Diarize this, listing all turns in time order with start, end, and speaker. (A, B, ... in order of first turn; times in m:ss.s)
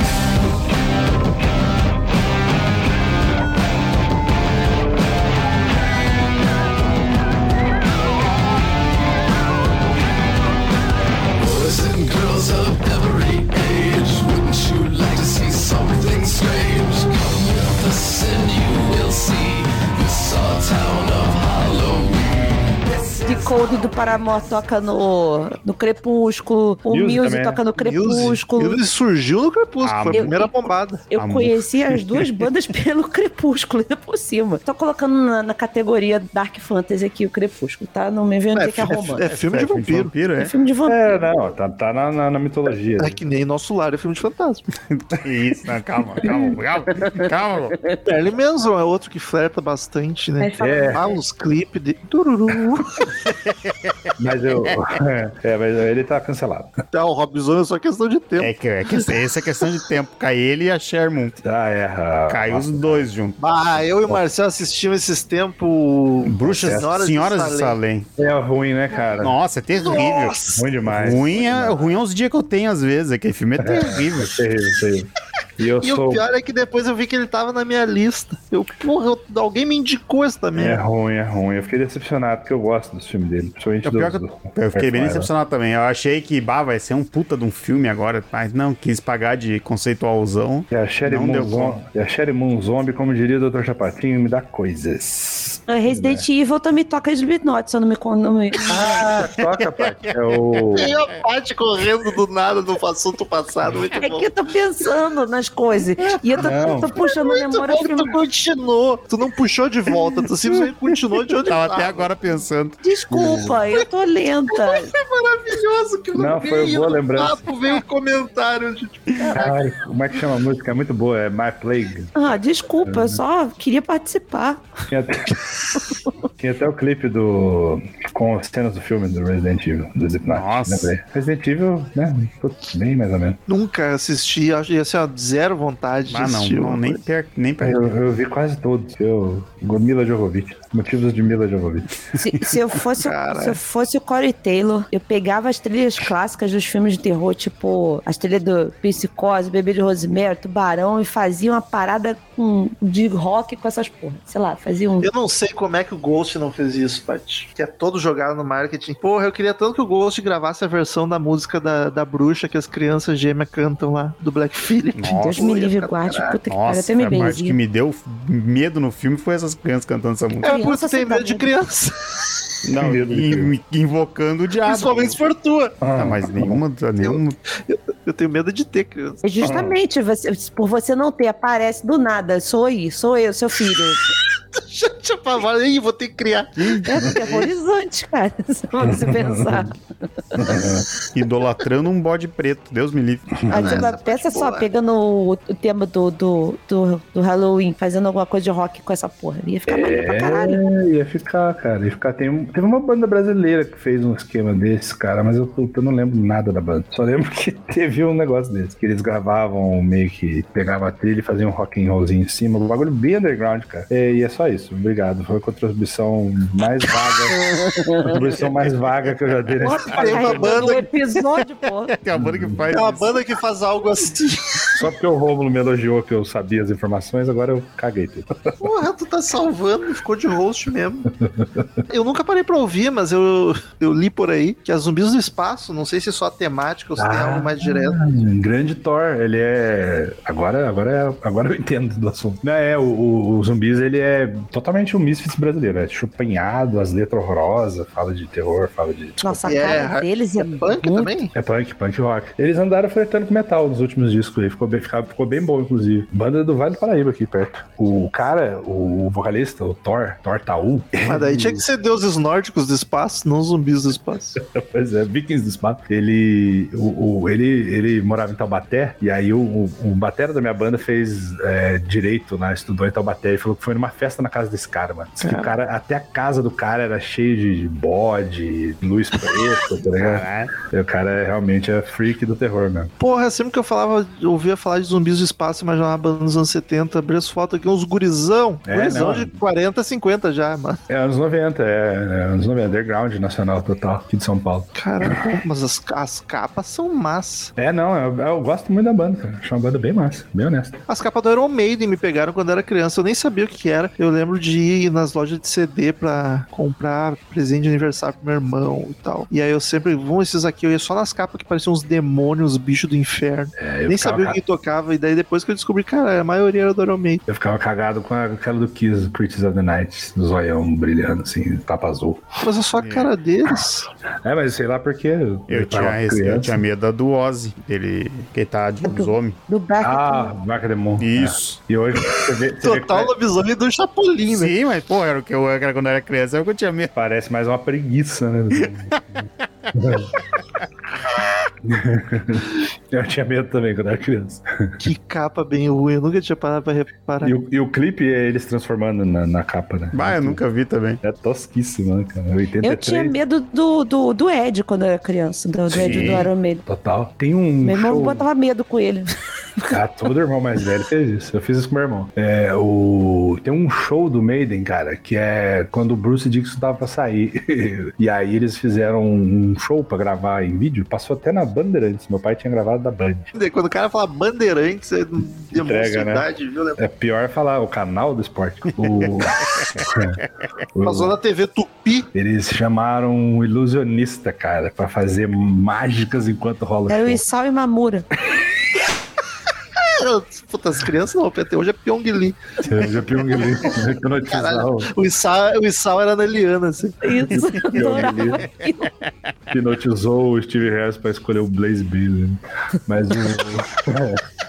0:11.4-0:23.5 A
0:23.2-0:28.8 B
0:26.9-0:27.6 C
0:27.8-0:31.0 D
0:29.8-0:30.3 E
0:30.1-0:30.6 B
0:31.1-0:39.2 B
0:31.2-0:32.3 E
0:38.6-0:40.1 D
0:39.3-0:40.5 E
0:40.4-0:41.3 B
0:40.9-0:43.2 C
0:43.0-0:44.7 D
0:44.9-0:47.8 E
0:46.2-0:48.0 B
0:48.1-0:53.1 D
0:50.4-0:51.2 B
0:50.6-0:51.0 C
0:53.3-0:54.0 E
0:54.2-0:56.8 C
0:56.9-0:59.1 D
0:58.4-1:01.4 E
1:01.4-1:03.1 C
1:02.3-1:03.4 E
1:03.4-1:07.8 D
1:06.2-1:08.1 E
1:06.4-1:06.9 C
1:08.2-1:09.4 C
1:09.2-1:14.4 E
1:09.7-1:10.6 D
1:10.5-1:11.9 C
1:13.6-1:16.2 C
1:15.8-1:20.8 D
1:20.6-1:25.3 C
1:23.8-1:31.8 E
1:30.7-1:36.3 C
1:35.7-1:39.0 B
1:38.7-1:40.9 C
1:39.8-1:40.8 E
1:40.8-1:44.3 D
1:44.0-1:48.2 B
1:46.4-1:47.0 C
1:47.0-1:52.1 D
1:51.5-1:52.8 E
1:52.8-1:54.9 B
1:53.1-1:53.6 C
1:54.5-1:59.6 D
1:56.1-1:57.4 C
1:59.4-2:02.3 C
2:02.2-2:04.6 B
2:02.8-2:03.2 C
2:04.9-2:05.5 C
2:06.4-2:13.4 C
2:10.3-2:10.9 E
2:13.5-2:17.0 D
2:16.1-2:17.8 E
2:17.6-2:21.9 C
2:22.2-2:35.1 B
2:23.0-2:23.6 D
2:35.0-2:46.4 D
2:45.0-2:45.5 E
2:45.2-2:47.6 B
2:46.5-2:50.6 E
2:50.4-2:51.5 B
2:50.4-2:52.4 D
2:52.6-2:55.2 E
2:52.8-2:53.5 C
2:54.6-2:55.8 D
2:55.8-2:56.6 C
2:55.9-2:57.4 E
2:57.0-2:59.2 D
2:59.2-3:04.1 B
2:59.4-2:59.8 C
3:04.5-3:06.8 D
3:06.6-3:06.9 E
3:06.8-3:09.8 B
3:08.8-3:09.7 C
3:10.4-3:10.9 C
3:11.1-3:13.4 E
3:13.4-3:13.9 C
3:13.5-3:20.6 B
3:13.5-3:14.7 D
3:19.7-3:37.4 C
3:37.4-3:38.2 B
3:38.0-3:40.6 C
3:38.1-3:39.1 E
3:39.6-3:41.9 B
3:39.9-3:40.9 D
3:41.9-3:43.3 E
3:42.1-3:42.7 C
3:42.7-3:44.9 D
3:44.8-3:48.6 C
3:48.6-3:51.1 D
3:51.2-3:51.7 C
3:51.9-3:58.1 D
3:57.0-4:09.5 C
4:09.2-4:11.1 B
4:09.5-4:11.3 D
4:11.3-4:21.6 C
4:21.0-4:24.4 D
4:24.4-4:42.9 C
4:35.2-4:35.5 D
4:39.9-4:40.5 E
4:43.0-4:50.8 D
4:48.7-4:49.4 C
4:50.9-4:55.4 C
4:54.8-4:57.5 D
4:57.6-5:00.8 C
5:00.9-5:17.2 D
5:13.6-5:14.4 C
5:17.3-5:22.2 C
5:22.4-5:23.9 D
5:22.8-5:23.1 E
5:24.2-5:26.6 C
5:25.5-5:29.4 E
5:28.8-5:30.3 B
5:29.8-5:33.1 C
5:31.0-5:31.6 E
5:32.6-5:34.5 D
5:34.3-5:36.9 E
5:37.0-5:40.1 C
5:38.6-5:39.2 E
5:41.6-5:44.8 C
5:44.8-5:47.4 D
5:47.2-5:50.4 C
5:49.9-5:51.0 E
5:51.0-5:53.2 C
5:52.6-5:56.6 B
5:55.7-5:58.2 C
5:55.8-5:56.3 E
5:57.6-5:59.1 B
5:59.7-6:13.3 C
6:13.3-6:16.8 D
6:15.5-6:20.2 C
6:18.8-6:19.8 E
6:20.8-6:21.2 C
6:20.8-6:22.1 D
6:22.1-6:27.2 C
6:26.9-6:28.1 B
6:29.8-6:37.1 D
6:32.7-6:34.9 C
6:37.0-6:38.9 B
6:37.3-6:38.4 C
6:37.4-6:38.6 E
6:39.5-6:44.2 C